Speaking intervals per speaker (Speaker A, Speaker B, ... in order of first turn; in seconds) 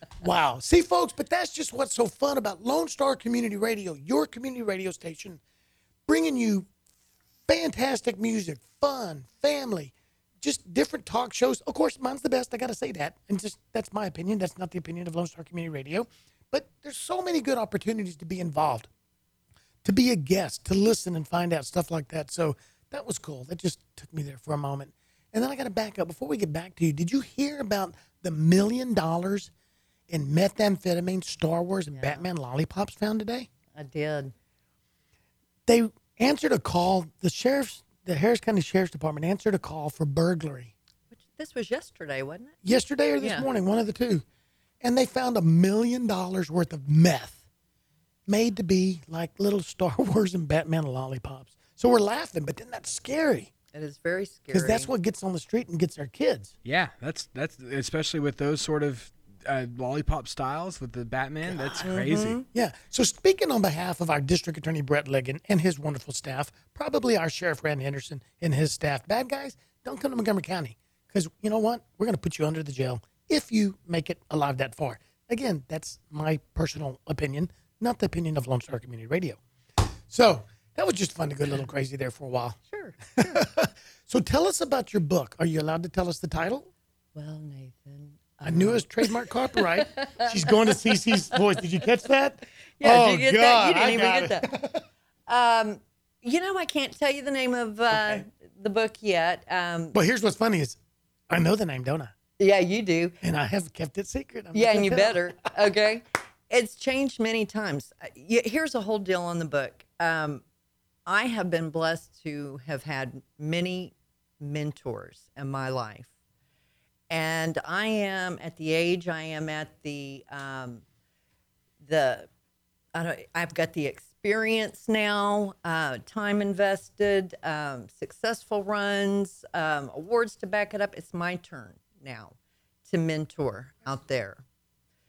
Speaker A: 0.2-5.4, 6.1-6.7, 7.5-18.9, 19.8-29.5, 30.1-33.5, 35.7-40.7, 42.6-44.2, 44.8-47.4, 48.3-53.5, 54.5-56.5, 61.4-61.8, 62.5-79.4, 80.1-82.6, 83.2-86.7, 88.4-94.8, 97.9-98.2, 99.9-100.8, 101.3-102.1, 103.2-105.5
Speaker B: 31.9-32.2, 33.7-34.3, 41.1-42.6, 43.2-43.5, 53.7-54.9, 61.8-62.4, 82.7-83.5, 87.1-91.6, 92.8-94.5, 95.3-100.0, 102.4-103.2, 104.5-110.4, 111.0-116.1, 117.1-120.8, 121.8-122.3, 122.9-134.4
Speaker C: 56.6-62.4